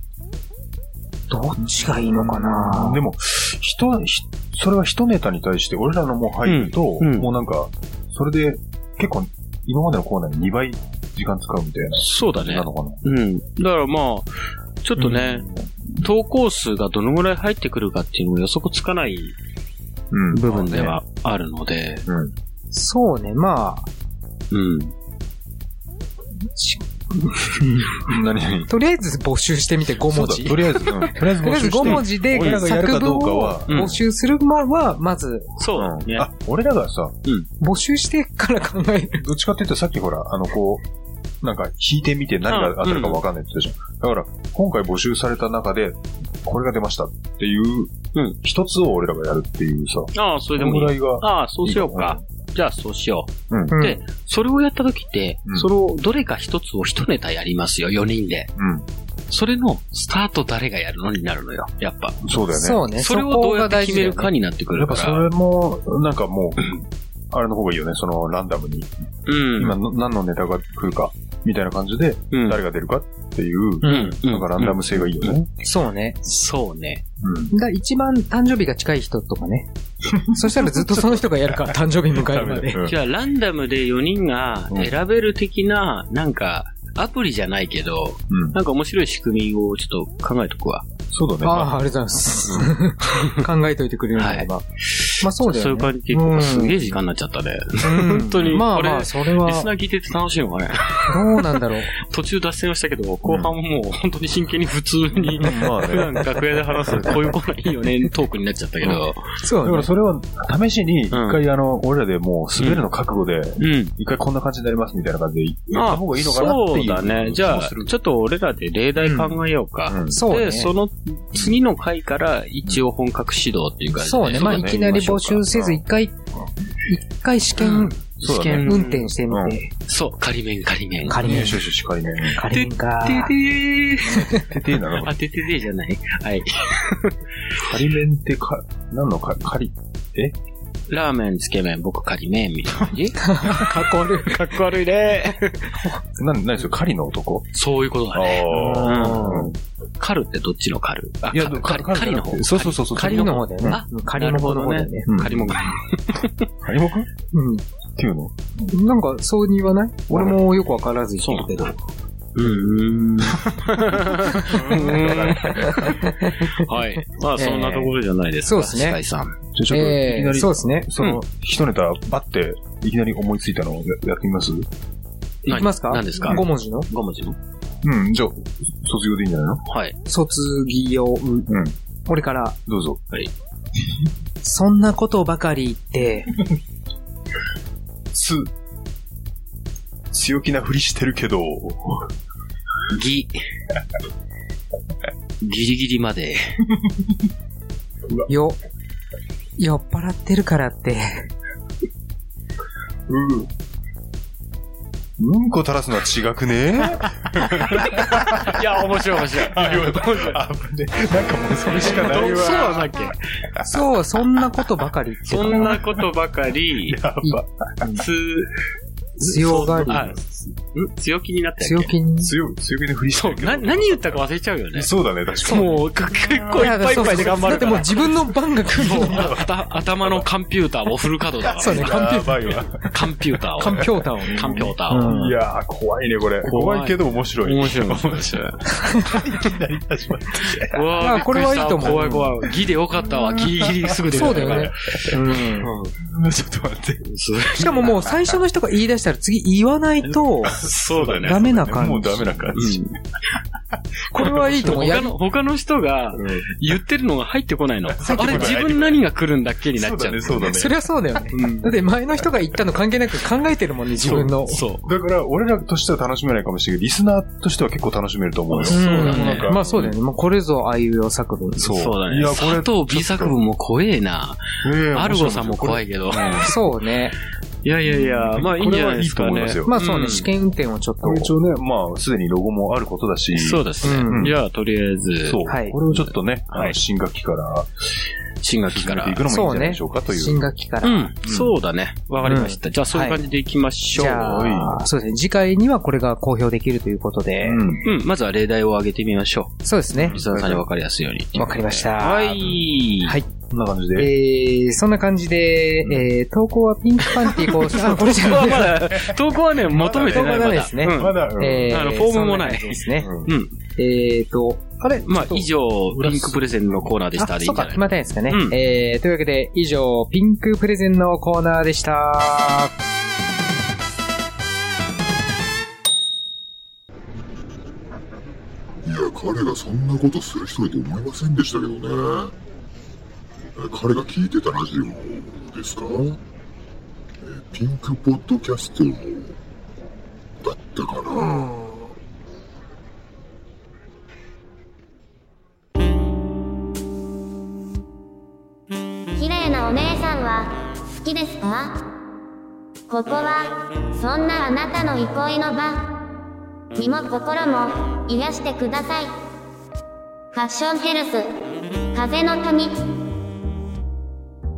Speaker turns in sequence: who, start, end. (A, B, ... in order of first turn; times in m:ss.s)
0:01.3-0:03.0 A
0:02.0-0:13.0 B
0:06.4-0:07.3 C
0:12.0-0:14.3 C
0:14.8-0:19.4 C
0:15.0-0:15.7 A
0:20.1-0:21.0 B
0:20.3-0:22.1 C
0:22.0-0:22.3 B
0:22.7-0:23.9 A
0:24.5-0:24.9 C
0:26.5-0:28.0 A
0:28.0-0:28.7 B
0:28.7-0:35.5 A
0:30.1-0:34.0 B
0:31.8-0:32.6 C
0:33.7-0:34.0 C
0:35.6-0:36.3 C
0:35.7-0:37.1 B
0:37.6-0:39.2 A
0:39.2-0:40.8 B
0:41.4-0:52.2 B
0:42.5-0:43.2 C
0:50.1-0:58.5 C
0:53.5-0:53.8 B
0:53.7-0:54.0 A
0:58.6-0:58.8 B
0:59.3-1:02.2 C
1:02.2-1:02.8 B
1:02.5-1:04.3 A
1:02.9-1:05.3 C
1:04.7-1:08.9 B
1:09.3-1:09.8 C
1:09.6-1:15.5 B
1:12.3-1:12.6 C
1:13.8-1:14.2 A
1:13.8-1:15.3 C
1:15.6-1:16.2 A
1:16.2-1:17.0 C
1:17.2-1:17.5 B
1:17.5-1:19.7 A
1:20.1-1:23.0 B
1:20.2-1:22.8 A
1:22.8-1:30.8 C
1:28.3-1:28.6 B
1:31.1-1:31.7 B
1:31.4-1:34.6 A
1:32.4-1:32.7 B
1:34.2-1:49.3 C
1:35.2-1:36.9 A
1:37.8-1:39.7 A
1:41.1-1:41.9 A
1:43.2-1:43.5 B
1:45.1-1:46.2 B
1:46.8-1:47.2 B
1:49.4-1:49.9 A
1:49.6-1:57.9 B
1:51.1-1:51.4 C
1:52.6-1:52.9 C
1:53.6-1:53.9 C
1:55.7-2:05.4 C
1:59.0-1:59.4 A
1:59.9-2:00.2 B
2:00.1-2:00.7 A
2:04.0-2:06.2 A
2:04.3-2:05.8 B
2:06.9-2:07.9 A
2:07.6-2:09.1 C
2:08.2-2:09.6 B
2:08.6-2:09.7 A
2:09.8-2:11.6 C
2:11.1-2:11.6 A
2:11.2-2:12.4 B
2:12.3-2:13.3 A
2:12.5-2:14.3 C
2:14.3-2:15.1 B
2:14.9-2:17.1 C
2:17.6-2:20.4 B
2:20.9-2:25.7 C
2:23.2-2:24.4 A
2:26.2-2:27.5 B
2:27.5-2:36.5 C
2:28.1-2:29.6 B
2:28.5-2:29.5 A
2:31.3-2:33.8 B
2:33.0-2:35.1 A
2:35.1-2:35.6 B
2:36.6-2:37.1 B
2:37.3-2:37.6 A
2:38.0-2:38.3 B
2:38.6-2:41.7 A
2:40.1-2:40.4 B
2:41.2-2:41.5 C
2:42.4-2:49.4 C
2:44.3-2:44.6 A
2:44.4-2:45.8 B
2:45.6-2:46.7 A
2:47.4-2:47.9 A
2:48.4-2:49.0 A
2:49.5-2:54.7 B
2:49.7-2:50.9 A
2:55.4-2:57.4 C
2:55.5-2:56.9 A
2:57.8-2:59.6 B
2:59.6-3:00.0 C
3:00.0-3:02.6 A
3:01.5-3:01.8 B
3:02.7-3:03.0 B
3:04.4-3:06.3 A
3:08.1-3:08.5 B
3:10.1-3:12.1 B
3:12.9-3:13.4 C
3:15.4-3:16.4 C
3:16.8-3:17.2 B
3:18.3-3:18.6 A
3:19.6-3:21.3 A
3:23.1-3:23.5 B
3:25.2-3:33.1 B
3:27.6-3:30.4 C
3:31.8-3:33.2 C
3:31.8-3:32.5 A
3:33.6-3:35.8 A
3:35.3-3:37.0 C
3:35.5-3:36.0 B
3:36.8-3:38.0 B
3:37.2-3:38.0 A
3:38.0-3:38.5 C
3:39.2-3:40.0 A
3:39.2-3:41.9 C
3:39.4-3:40.2 B
3:41.6-3:42.3 A
3:42.2-3:47.9 B
3:43.1-3:48.2 C
3:46.6-3:49.3 A
3:48.6-3:50.2 B
3:48.7-3:52.2 C
3:51.4-4:02.5 B
3:51.6-3:52.6 A
3:52.8-3:55.1 C
3:53.6-3:55.3 A
3:56.4-3:58.6 C
4:00.6-4:04.7 C
4:01.0-4:02.3 A
4:03.0-4:07.1 B
4:04.1-4:05.7 A
4:07.0-4:08.1 C
4:07.5-4:10.6 A
4:07.6-4:08.3 B
4:10.4-4:12.9 B
4:10.5-4:11.5 C
4:11.2-4:12.5 A
4:12.5-4:12.9 C
4:14.1-4:15.1 A
4:14.2-4:20.6 C
4:16.1-4:16.5 B
4:17.9-4:19.0 B
4:18.0-4:18.6 A
4:19.7-4:20.7 B
4:20.5-4:24.6 A
4:21.3-4:21.7 C
4:24.0-4:24.9 C
4:24.8-4:29.9 B
4:28.5-4:29.5 C
4:28.7-4:31.7 A
4:31.6-4:33.4 B
4:31.7-4:34.4 C
4:34.6-4:36.5 B
4:34.9-4:36.5 C
4:36.4-4:37.2 A
4:37.6-4:40.3 C
4:37.9-4:39.7 B
4:39.7-4:41.3 A
4:41.0-4:44.4 B
4:43.3-4:46.8 C
4:43.8-4:44.3 A
4:45.2-4:47.7 B
4:45.5-4:45.8 A
4:48.4-4:49.2 C
4:48.7-4:50.5 B
4:49.3-4:51.1 A
4:50.8-4:54.6 C
4:51.2-4:51.6 B
4:52.2-4:53.2 A
4:53.9-4:57.6 A
4:54.2-4:54.8 B
4:57.4-4:57.8 B
4:57.8-5:03.1 C
4:59.6-5:00.2 A
5:00.0-5:00.6 B
5:01.4-5:02.5 A
5:03.4-5:04.1 B
5:04.0-5:08.7 A
5:07.4-5:13.6 C
5:07.8-5:11.8 B
5:10.0-5:13.1 A
5:13.0-5:13.3 B
5:13.8-5:15.4 A
5:15.0-5:18.5 C
5:15.9-5:16.9 B
5:17.2-5:22.7 A
5:28.8-5:32.3 D
5:33.5-5:36.2 D
5:37.2-5:39.4 D
5:40.4-5:41.5 D
5:49.2-5:51.9 E
5:52.9-5:56.0 E
5:56.8-5:59.1 E
6:00.3-6:01.4 E
6:01.9-6:03.0 E